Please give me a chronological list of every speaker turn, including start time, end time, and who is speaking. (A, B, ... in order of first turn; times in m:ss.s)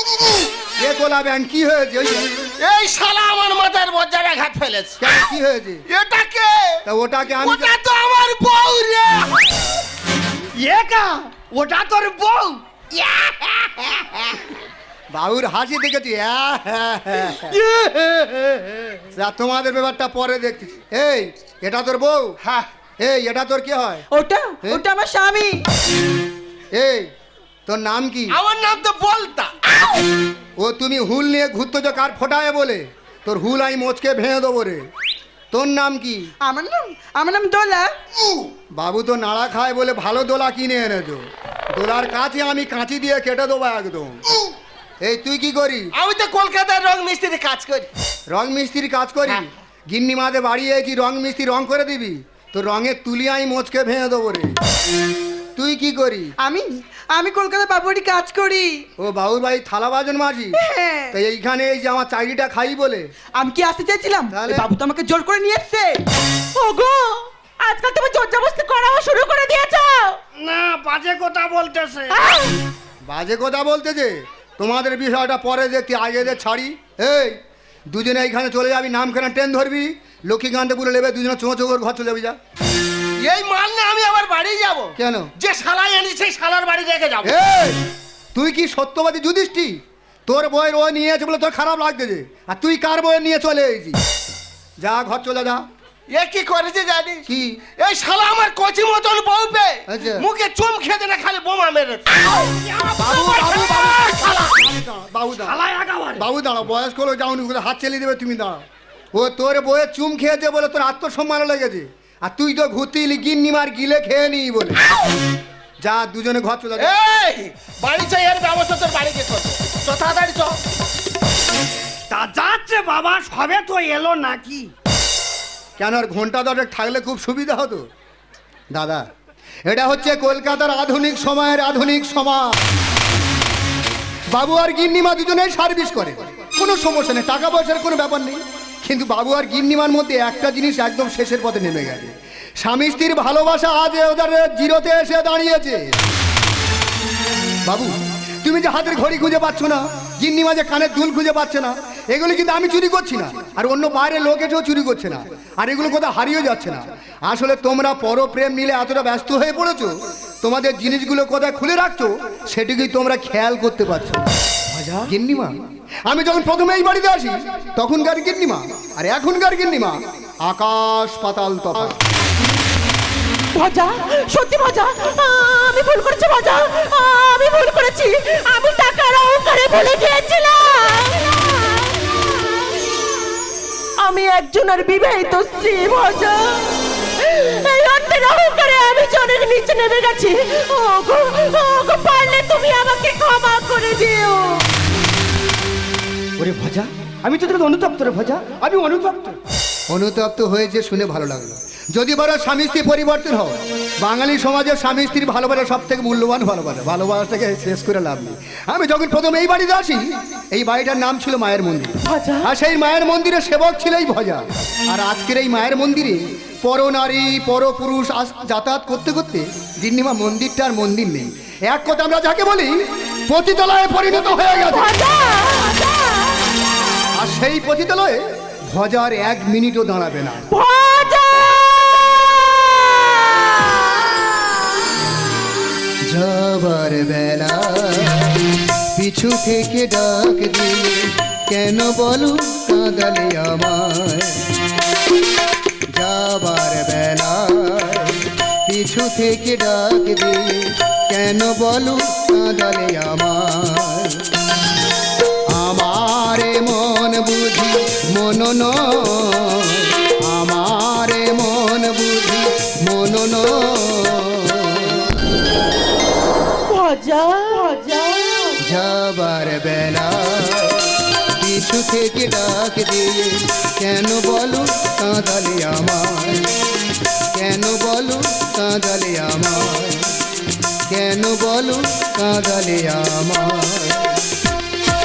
0:00.8-0:02.4 A
0:02.6-0:05.2 B
0:05.0-0:05.8 A
0:05.9-0:06.8 B
0:06.8-0:07.8 A
0:07.4-0:09.6 B
0:10.6-0:12.6 C
0:13.0-0:13.8 B
0:15.1-0:17.6 A
0:17.6-0:18.6 C
0:19.1-0:22.4 A
0:23.0-0:24.0 A
0:24.1-0:25.6 D
0:26.7-0:27.1 A
0:27.6-0:28.4 A
0:28.3-0:29.5 B
0:30.6-0:34.8 A
0:35.5-0:36.3 A
0:36.4-0:37.9 D
0:38.7-0:44.2 A
0:45.0-0:45.9 A
0:45.9-0:47.9 B
0:48.3-0:54.6 A
0:55.6-0:56.3 A
0:56.4-0:58.8 D
0:59.0-1:00.6 A
1:00.6-1:01.1 D
1:01.1-1:03.1 A
1:03.3-1:06.0 D
1:04.3-1:04.7 A
1:06.6-1:10.2 E
1:10.4-1:12.2 C
1:12.1-1:12.5 E
1:13.1-1:17.4 A
1:17.9-1:22.4 A
1:23.2-1:27.4 B
1:25.0-1:25.3 A
1:27.2-1:27.8 A
1:28.3-1:34.0 A
1:34.8-1:35.6 A
1:36.1-1:37.2 B
1:37.2-1:37.6 A
1:37.8-1:42.3 B
1:39.9-1:40.2 A
1:42.6-1:44.0 C
1:43.0-1:45.6 A
1:43.3-1:44.6 B
1:45.4-1:46.2 C
1:46.2-1:48.6 A
1:49.1-1:54.8 A
1:55.8-1:56.9 A
1:56.8-2:00.6 B
2:02.1-2:04.7 C
2:05.8-2:07.8 A
2:08.7-2:09.0 A
2:09.6-2:12.6 A
2:14.3-2:25.9 A
2:27.6-2:44.3 A
2:44.7-2:45.1 C
2:45.0-2:52.0 A
2:53.5-3:02.4 E
3:04.0-3:14.6 E
3:16.4-3:19.4 C
3:19.9-3:45.0 A
3:32.0-3:32.5 E
3:44.6-3:46.4 E
3:47.1-3:50.5 A
3:50.5-3:54.6 E
3:56.1-4:04.4 A
4:05.9-4:14.2 A
4:15.5-4:25.0 A
4:26.7-4:28.6 E
4:28.6-4:36.5 A
4:37.3-4:40.1 A
4:40.9-4:44.1 A